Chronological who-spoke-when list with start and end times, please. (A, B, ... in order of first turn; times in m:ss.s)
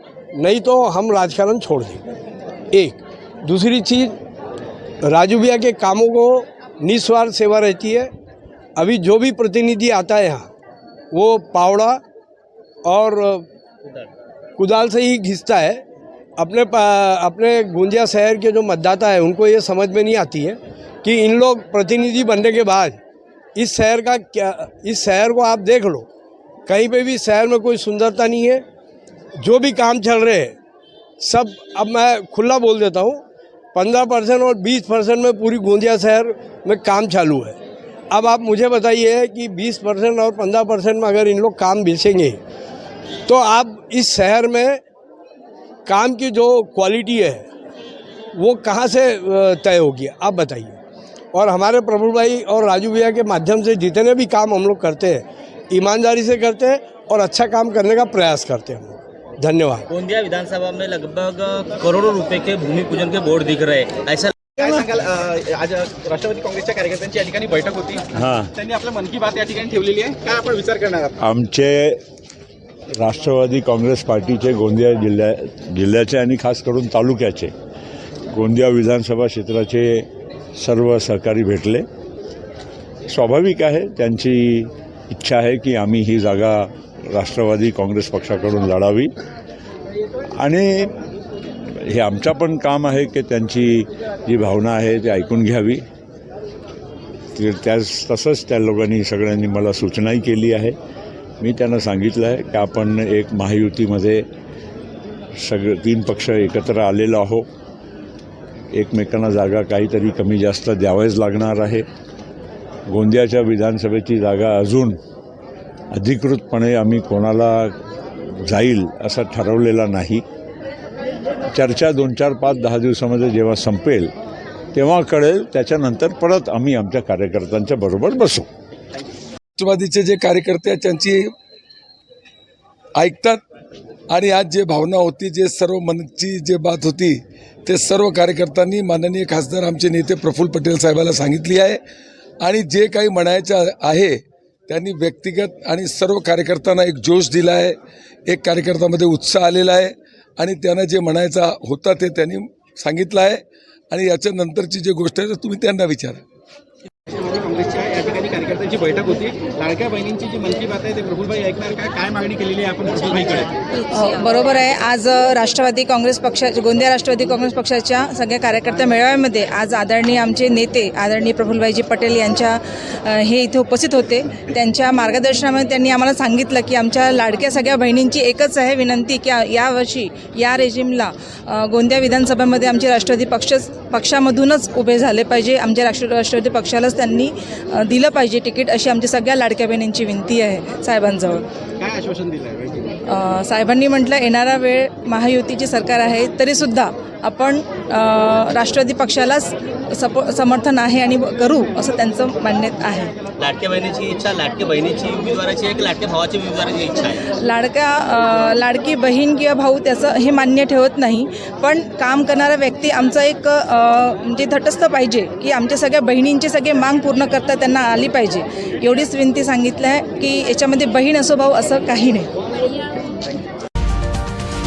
0:00.4-0:02.0 A
0:02.7-0:04.2 A
0:05.0-0:08.1 A
0:08.8-0:10.5 A
0:11.1-0:12.0 A
0:12.8-0:13.4 A
0:14.6-0:15.8 A
0:16.4-0:23.0 A
0:23.6-0:26.1 A
0:26.7-0:28.6 A
0:29.4-0:30.5 A
0:31.2-0:33.2 A
0:33.7-0:37.6 A
0:38.1-0:42.4 A
0:43.3-0:44.8 A
0:45.8-0:47.5 A
0:48.3-0:50.8 A
0:51.3-0:59.8 A
0:59.9-1:04.3 B
1:04.6-1:08.0 C
1:08.1-1:08.5 D
1:08.6-1:11.1 C
1:11.2-1:12.0 D
1:13.0-1:17.5 D
1:18.3-1:21.8 D
1:23.1-1:29.1 D
1:30.4-1:30.9 D
1:31.7-1:35.8 D
1:37.3-1:40.8 D
1:41.4-1:44.3 D
1:45.4-1:47.4 D
1:48.7-1:51.8 D
1:52.9-1:55.0 D
1:55.9-1:57.8 D
1:58.4-2:00.2 D
2:01.5-2:04.1 D
2:04.7-2:08.5 D
2:09.6-2:11.2 E
2:13.0-2:13.4 E
2:14.1-2:21.8 E
2:22.4-2:27.8 E
2:28.3-2:36.2 E
2:37.2-2:43.5 C
2:43.9-3:11.4 F
3:11.8-3:12.9 C
3:13.1-3:23.1 F
3:23.4-3:27.2 B
3:27.4-3:42.3 F